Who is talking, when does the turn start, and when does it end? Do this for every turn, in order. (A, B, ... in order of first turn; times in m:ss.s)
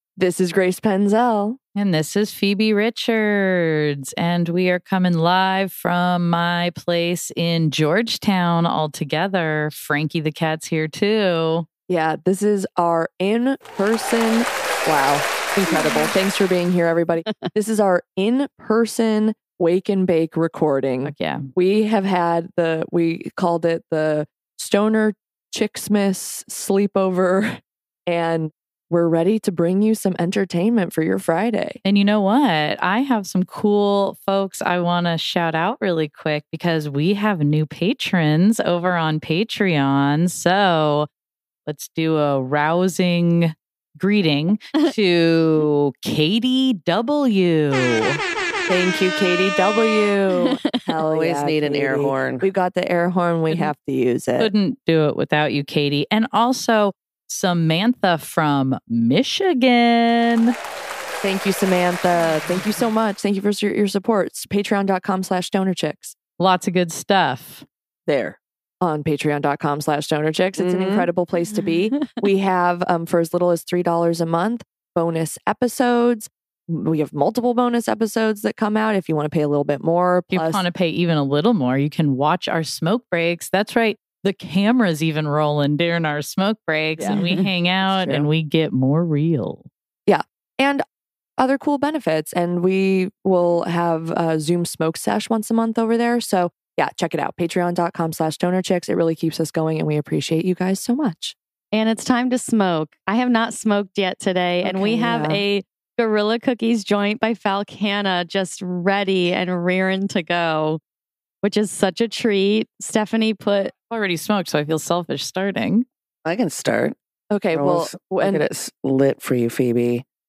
0:00.2-0:01.6 A
0:01.8-0:11.7 B
0:11.9-0:31.8 A
0:21.0-0:21.5 B
0:31.8-0:41.1 B
0:41.7-0:48.2 B
0:48.7-0:54.5 A
0:51.1-0:52.5 C
0:54.4-1:00.6 B
1:01.2-1:06.2 A
1:06.4-1:07.6 B
1:08.1-1:08.4 C
1:08.8-1:20.6 A
1:10.6-1:11.1 C
1:20.3-1:29.7 B
1:27.0-1:27.2 A
1:27.1-1:27.5 D
1:27.8-1:28.3 A
1:30.1-1:30.8 A
1:31.4-1:41.4 A
1:41.7-1:50.8 D
1:44.6-1:45.4 A
1:51.4-1:53.7 D
1:53.9-1:55.9 B
1:56.2-1:57.0 C
1:57.3-1:58.4 A
1:57.5-2:00.0 C